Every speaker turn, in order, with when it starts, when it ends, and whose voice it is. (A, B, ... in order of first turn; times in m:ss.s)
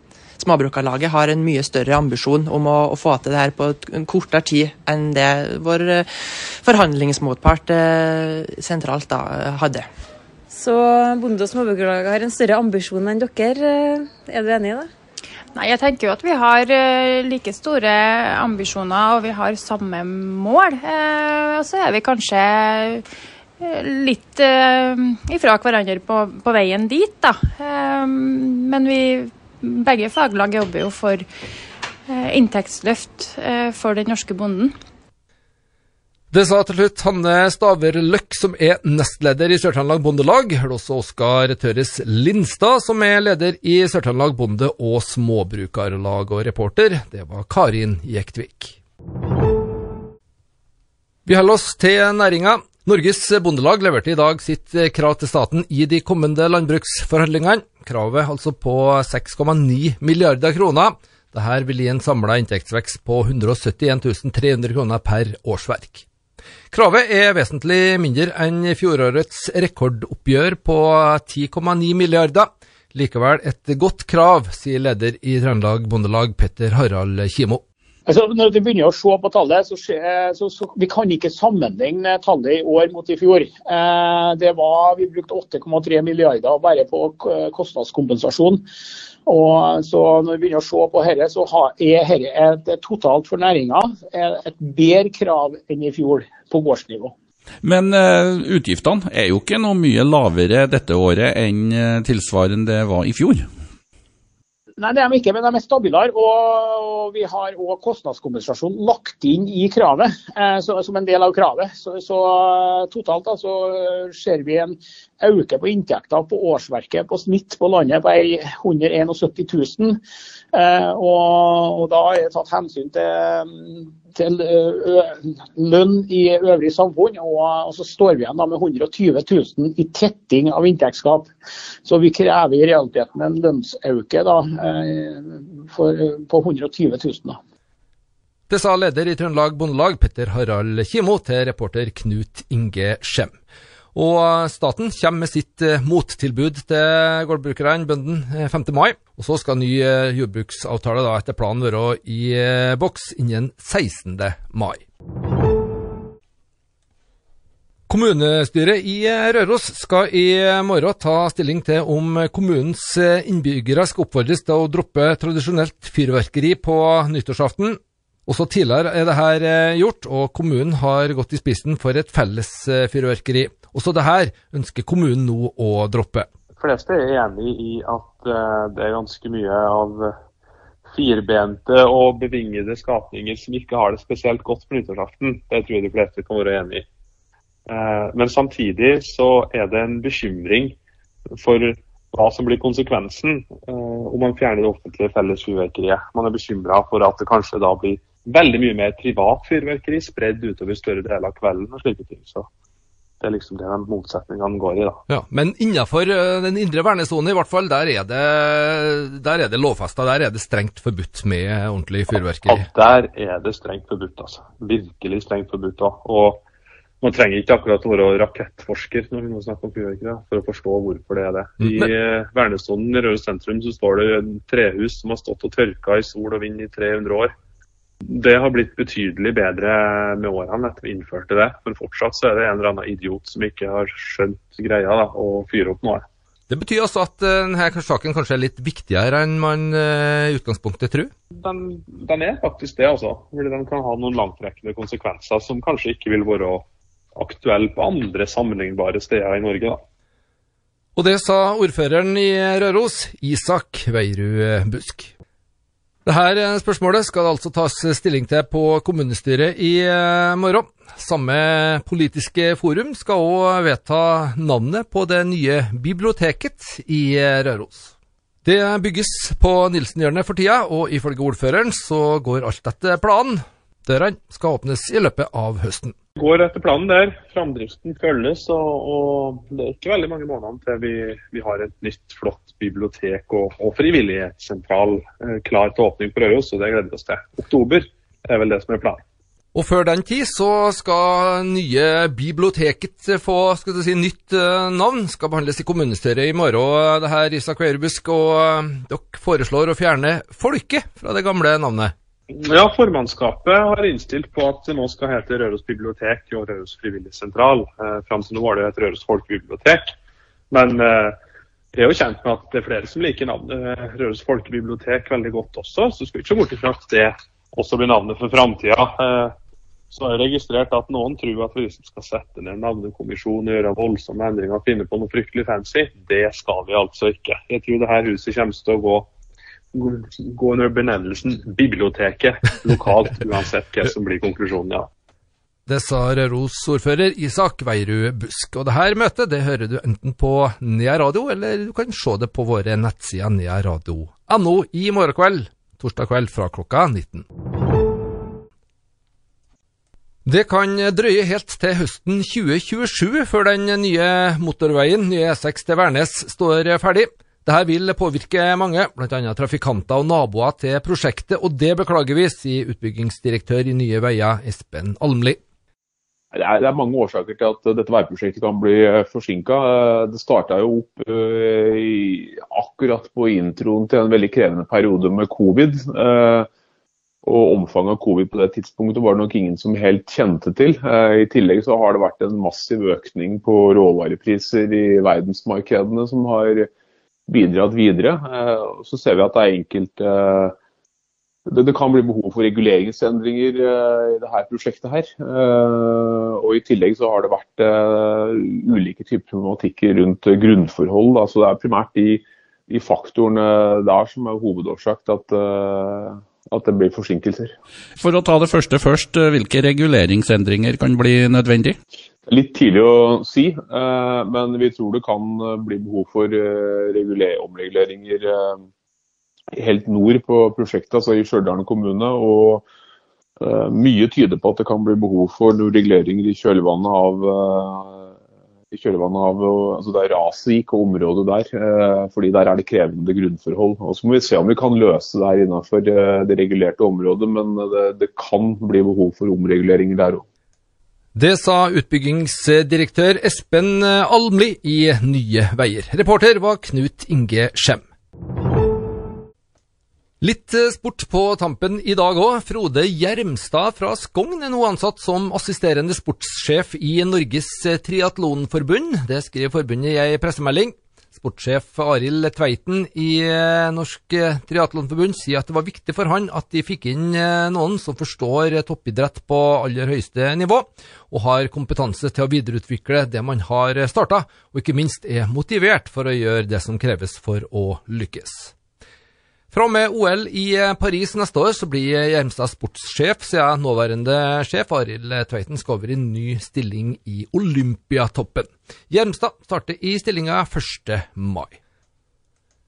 0:00.4-0:06.1 A
0:06.6-0:09.9 A
0:10.5-0:14.9 B
0:15.5-0:23.0 C
0:23.6-0:31.2 C
0:32.1-0:34.7 C
0:36.3-0:48.8 D
0:51.2-1:06.0 D
1:06.7-1:17.6 D
1:18.0-1:28.6 E
1:29.2-1:37.1 E
1:37.6-1:43.5 F
1:44.8-2:00.0 E
2:00.5-2:11.3 E
2:11.8-2:17.4 E
2:18.5-2:23.3 D
2:23.9-2:34.8 D
2:37.9-2:56.3 D
2:56.6-3:00.1 G
3:00.9-3:06.8 G
3:07.7-3:10.8 G
3:11.4-3:22.5 G
3:23.2-3:25.0 G
3:25.1-3:32.7 D
3:32.4-3:36.4 G
3:37.0-3:47.3 G
3:48.0-3:56.0 G
3:56.5-4:01.1 D
4:01.3-4:06.6 G
4:07.2-4:09.8 G
4:11.0-4:15.1 D
4:16.0-4:27.9 D
4:28.4-4:35.9 D
4:36.2-4:49.0 G
4:49.5-5:01.9 D
5:02.3-5:09.9 G
5:10.5-5:11.2 G
5:11.7-5:19.3 G
5:19.9-5:29.1 G
5:29.7-5:34.9 G
5:35.7-5:47.2 D
5:50.2-6:05.4 D
6:06.3-6:16.5 H
6:17.2-6:26.7 H
6:27.3-6:30.6 H
6:31.5-6:47.5 H
6:48.0-6:51.8 F
6:52.3-6:58.6 H
6:59.5-7:02.6 H
7:03.4-7:08.1 H
7:08.7-7:20.2 H
7:21.1-7:27.8 D
7:30.2-7:58.5 D
7:59.5-8:11.6 D